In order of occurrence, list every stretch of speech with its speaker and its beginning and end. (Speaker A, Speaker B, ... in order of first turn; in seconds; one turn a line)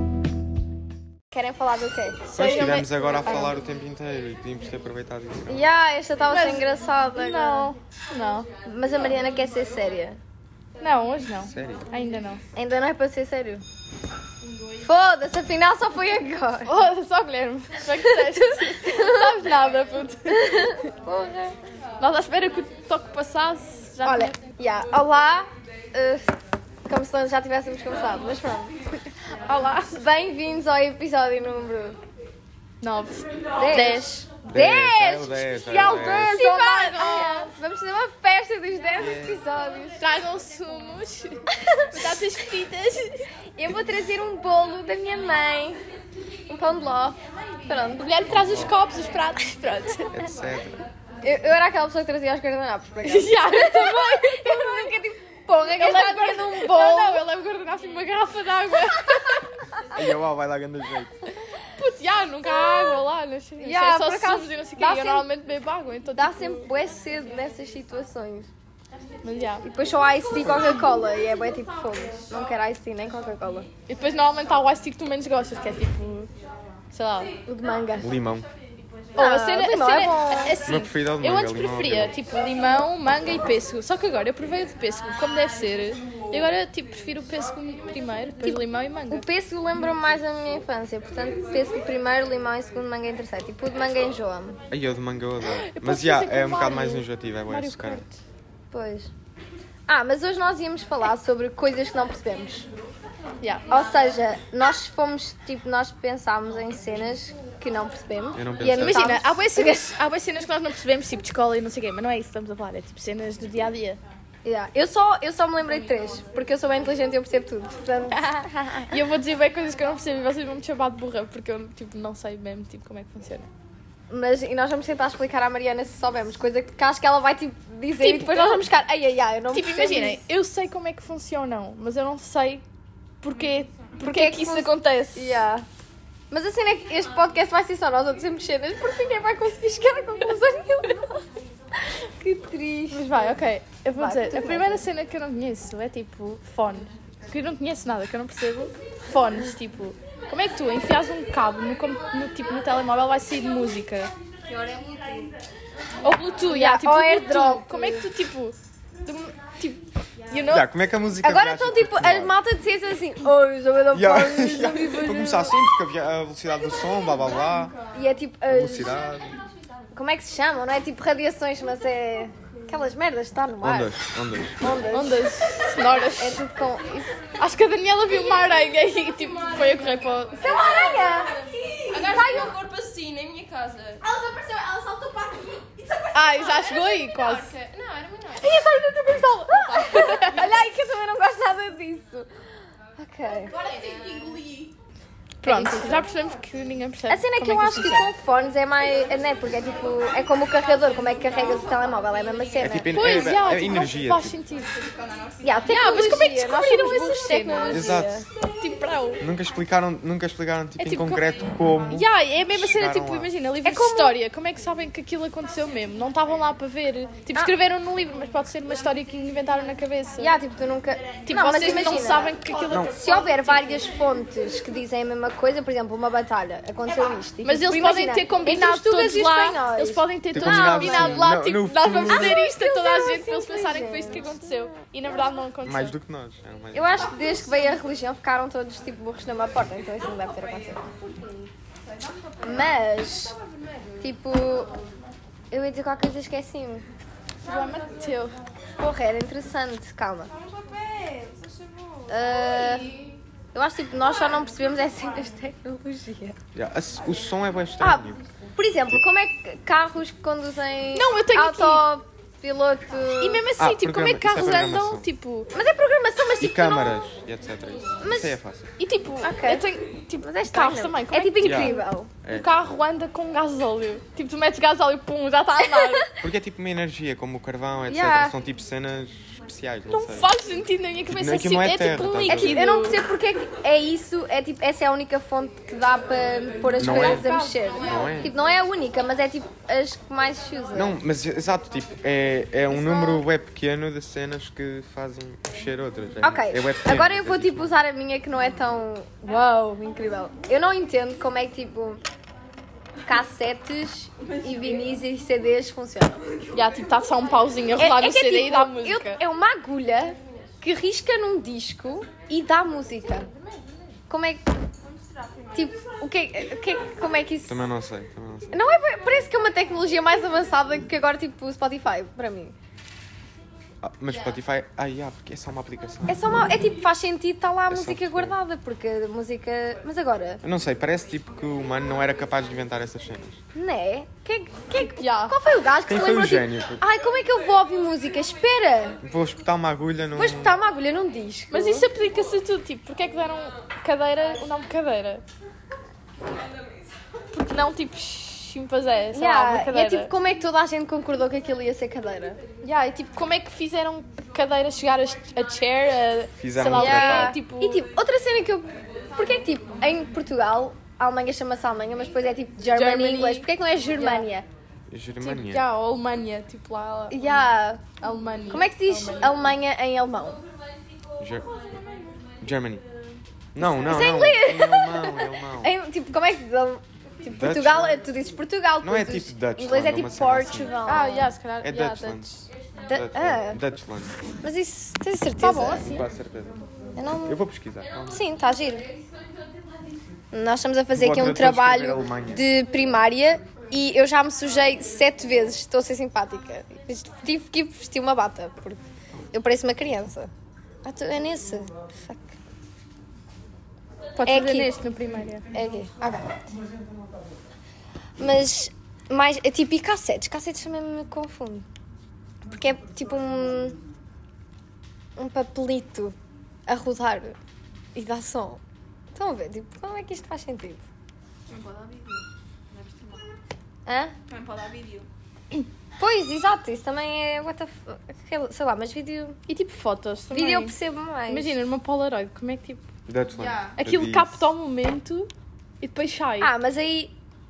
Speaker A: 1.3-3.5
Speaker B: 2.3-3.6
Speaker C: 2.3-5.7
Speaker A: 5.5-7.7
Speaker B: 6.3-8.5
Speaker A: 8.6-10.2
Speaker B: 10.8-12.4
Speaker C: 11.4-11.8
Speaker A: 12.5-13.6
Speaker A: 14.8-16.8
Speaker B: 16.6-20.5
Speaker A: 18.2-19.3
Speaker A: 20.3-21.6
Speaker B: 22.0-24.4
Speaker A: 24.0-26.3
Speaker A: 26.9-28.7
Speaker B: 29.5-29.9
Speaker A: 29.8-32.0
Speaker B: 32.8-34.2
Speaker A: 33.6-40.0
Speaker C: 34.5-36.4
Speaker B: 35.6-37.5
Speaker C: 39.0-39.4
Speaker B: 40.0-43.3
Speaker A: 41.7-42.1
Speaker A: 43.5-45.8
Speaker A: 46.5-48.2
Speaker B: 48.0-50.1
Speaker C: 48.3-48.7
Speaker C: 50.1-50.8
Speaker A: 51.2-57.2
Speaker B: 53.0-54.9
Speaker B: 55.8-59.4
Speaker C: 59.9-61.2
Speaker B: 61.8-66.6
Speaker A: 62.4-63.0
Speaker A: 63.6-65.2
Speaker A: 66.2-68.5
Speaker B: 69.2-69.7
Speaker A: 69.6-73.7
Speaker B: 73.9-76.3
Speaker B: 76.9-77.3
Speaker A: 77.5-78.1
Speaker C: 78.0-78.5
Speaker A: 79.2-80.6
Speaker B: 79.2-89.2
Speaker C: 80.6-82.1
Speaker A: 89.1-94.6
Speaker C: 94.7-98.0
Speaker B: 95.5-98.2
Speaker A: 98.7-99.1
Speaker A: 99.9-102.7
Speaker B: 103.4-103.7
Speaker A: 103.7-109.9
Speaker C: 108.3-109.2
Speaker B: 108.6-114.0
Speaker A: 114.4-119.0
Speaker B: 118.9-123.5
Speaker A: 124.1-130.2
Speaker B: 128.0-128.6
Speaker B: 129.5-132.6
Speaker B: 133.2-135.4
Speaker A: 134.0-135.7
Speaker A: 136.3-141.2
Speaker A: 142.2-143.2
Speaker B: 142.9-154.1
Speaker A: 144.0-144.8
Speaker D: 154.6-155.0
Speaker B: 156.0-160.7
Speaker A: 156.5-158.1
Speaker C: 160.5-162.4
Speaker A: 161.2-165.5
Speaker C: 163.9-167.7
Speaker A: 167.9-168.9
Speaker C: 168.5-169.3
Speaker A: 169.9-173.9
Speaker C: 173.6-174.6
Speaker A: 174.6-175.2
Speaker B: 174.9-176.4
Speaker A: 176.1-177.2
Speaker B: 177.4-180.5
Speaker D: 179.5-188.6
Speaker A: 180.4-182.5
Speaker B: 186.1-187.5
Speaker B: 188.4-190.5
Speaker A: 189.5-192.3
Speaker A: 192.9-193.5
Speaker D: 193.4-194.7
Speaker A: 195.4-196.1
Speaker B: 195.4-198.1
Speaker A: 197.1-203.6
Speaker C: 202.6-204.4
Speaker B: 202.9-204.7
Speaker D: 204.7-205.7
Speaker A: 205.4-208.3
Speaker B: 205.6-208.0
Speaker C: 207.7-208.2
Speaker B: 208.6-209.2
Speaker C: 209.2-213.3
Speaker B: 210.8-211.3
Speaker B: 211.9-220.3
Speaker A: 213.6-214.2
Speaker A: 220.2-231.2
Speaker B: 221.2-222.9
Speaker C: 222.7-223.0
Speaker D: 222.8-223.8
Speaker B: 227.4-235.9
Speaker C: 230.3-232.4
Speaker A: 232.1-234.5
Speaker C: 235.6-237.3
Speaker A: 236.7-240.9
Speaker D: 241.0-241.2
Speaker D: 241.9-243.8
Speaker A: 242.4-243.3
Speaker A: 244.0-244.7
Speaker A: 245.5-246.8
Speaker B: 247.4-248.4
Speaker A: 248.8-250.3
Speaker D: 250.3-253.2
Speaker A: 252.1-252.9
Speaker A: 253.5-256.4
Speaker C: 256.5-258.2
Speaker A: 257.8-258.0
Speaker A: 258.6-263.4
Speaker B: 260.9-261.8
Speaker B: 263.2-265.5
Speaker C: 263.6-265.1
Speaker A: 265.5-267.0
Speaker C: 266.4-268.7
Speaker A: 268.0-268.3
Speaker B: 268.8-276.1
Speaker A: 269.2-269.6
Speaker A: 270.2-272.1
Speaker C: 271.4-272.5
Speaker A: 275.7-276.1
Speaker C: 276.2-280.3
Speaker A: 277.9-278.3
Speaker B: 279.9-283.0
Speaker C: 281.1-282.6
Speaker A: 282.3-290.9
Speaker C: 286.8-288.3
Speaker D: 286.8-288.3
Speaker C: 290.7-297.7
Speaker A: 292.7-293.2
Speaker A: 296.2-302.0
Speaker A: 303.1-306.2
Speaker B: 306.5-309.2
Speaker A: 307.8-313.3
Speaker A: 314.1-314.4
Speaker D: 314.8-315.5
Speaker A: 315.5-317.6
Speaker C: 317.4-318.6
Speaker A: 318.5-322.5
Speaker C: 323.8-326.2
Speaker A: 326.1-330.4
Speaker C: 327.7-328.4
Speaker C: 330.4-333.4
Speaker A: 333.5-339.0
Speaker B: 334.9-335.4
Speaker C: 335.9-336.8
Speaker C: 339.0-340.5
Speaker A: 340.1-341.9
Speaker B: 341.5-345.2
Speaker B: 347.3-350.1
Speaker A: 349.1-352.4
Speaker B: 352.6-357.8
Speaker C: 356.4-357.4
Speaker A: 356.7-364.5
Speaker B: 362.7-364.3
Speaker C: 364.9-365.6
Speaker B: 365.2-367.2
Speaker A: 367.1-367.8
Speaker B: 368.0-369.4
Speaker A: 368.5-370.4
Speaker C: 371.2-371.5
Speaker D: 371.5-372.2
Speaker C: 372.4-372.8
Speaker C: 373.5-375.7
Speaker A: 373.6-381.3
Speaker C: 377.3-378.1
Speaker C: 378.8-380.8
Speaker B: 380.8-382.4
Speaker C: 381.6-382.4
Speaker A: 382.9-383.6
Speaker C: 382.9-384.1
Speaker A: 384.4-385.9
Speaker B: 385.4-386.1
Speaker C: 385.8-386.6
Speaker A: 386.9-387.4
Speaker C: 387.2-388.2
Speaker A: 388.1-388.9
Speaker A: 390.3-398.8
Speaker C: 390.9-392.4
Speaker A: 399.3-400.3
Speaker A: 400.8-402.3
Speaker B: 404.1-405.5
Speaker A: 404.2-404.7
Speaker A: 405.5-406.4
Speaker A: 408.2-411.6
Speaker A: 412.6-413.8
Speaker A: 415.1-416.1
Speaker A: 416.7-417.4
Speaker A: 417.9-418.6
Speaker A: 419.1-420.8
Speaker D: 421.5-423.2
Speaker A: 423.9-424.1
Speaker D: 424.3-425.1
Speaker A: 426.0-429.4
Speaker B: 429.5-430.8
Speaker A: 430.3-431.5
Speaker B: 431.3-432.9
Speaker C: 433.1-434.4
Speaker D: 433.3-433.8
Speaker B: 433.8-435.3
Speaker B: 435.8-436.5
Speaker A: 436.4-437.1